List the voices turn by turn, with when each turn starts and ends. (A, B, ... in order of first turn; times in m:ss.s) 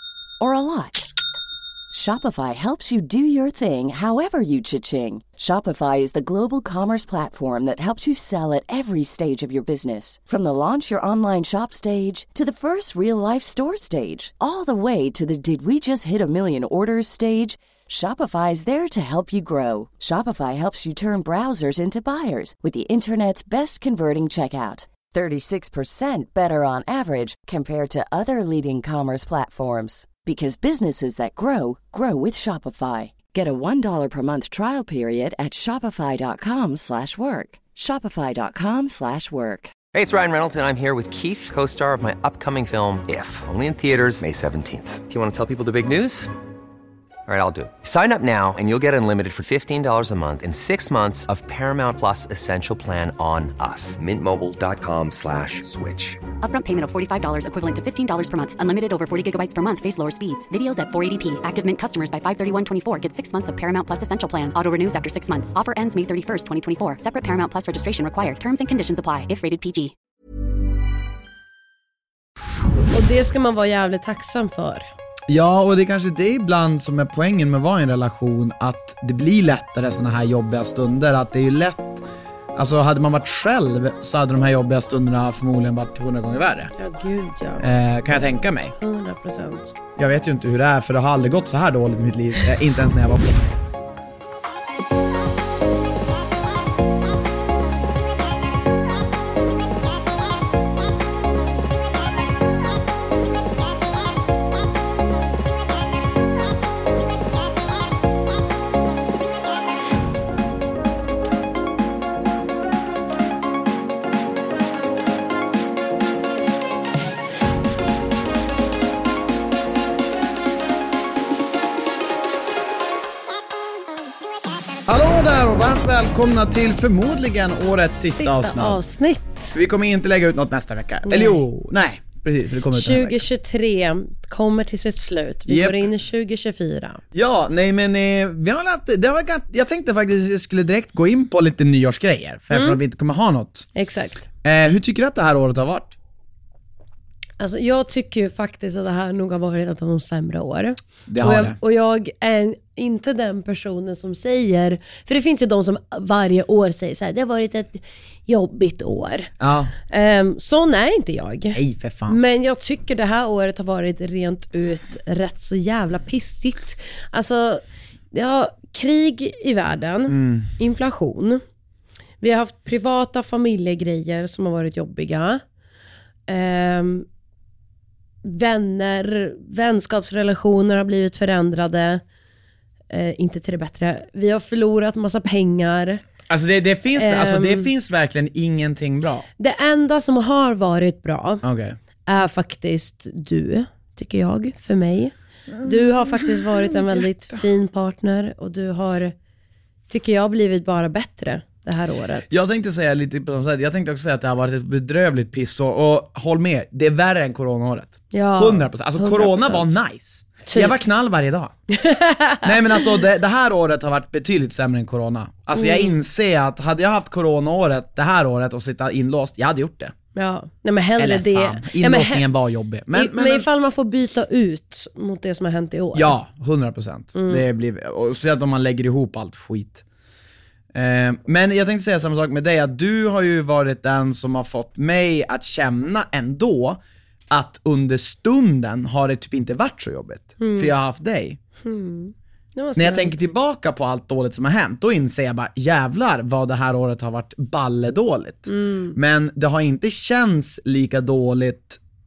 0:00.4-0:01.1 A
0:01.9-0:39.8 A
0:39.9-0:46.3 B
0:47.2-0:56.2 B
0:56.4-1:09.9 C
1:12.9-1:14.9 D
1:15.3-1:26.7 E
1:26.8-1:27.6 D
1:27.6-1:28.7 E
1:28.8-1:29.7 D
1:30.0-1:33.6 E
2:04.8-2:08.8 E
2:08.2-2:09.6 D
2:09.5-2:13.2 E
2:11.0-2:11.4 D
2:12.7-2:17.0 D
2:15.5-2:15.9 E
2:17.1-2:23.7 E
2:22.5-2:22.8 D
2:23.7-2:24.3 D
2:24.4-2:26.0 E
2:27.4-2:39.3 D
2:31.1-2:31.6 E
2:39.4-2:39.7 E
2:39.9-2:51.4 D
2:41.5-2:42.2 E
2:50.1-2:50.5 E
2:52.2-2:55.4 D
2:56.3-2:57.0 D
2:58.2-3:02.0 D
3:02.9-3:06.0 D
3:06.3-3:09.3 E
3:06.9-3:07.7 D
3:09.4-3:11.4 D
3:11.4-3:11.8 E
3:12.0-3:19.1 D
3:15.5-3:17.4 E
3:19.9-3:22.4 D
3:22.3-3:31.5 E
3:28.1-3:29.7 D
3:30.4-3:30.8 D
3:31.7-3:32.8 D
3:32.4-3:39.9 E
3:35.5-3:36.0 D
3:40.1-3:42.3 D
3:41.0-3:43.5 E
3:42.9-3:46.1 D
3:45.9-3:49.8 E
3:47.1-3:47.4 D
3:50.7-4:01.4 E
4:00.4-4:00.7 D
4:01.6-4:03.2 D
4:02.8-4:11.8 E
4:08.5-4:09.0 D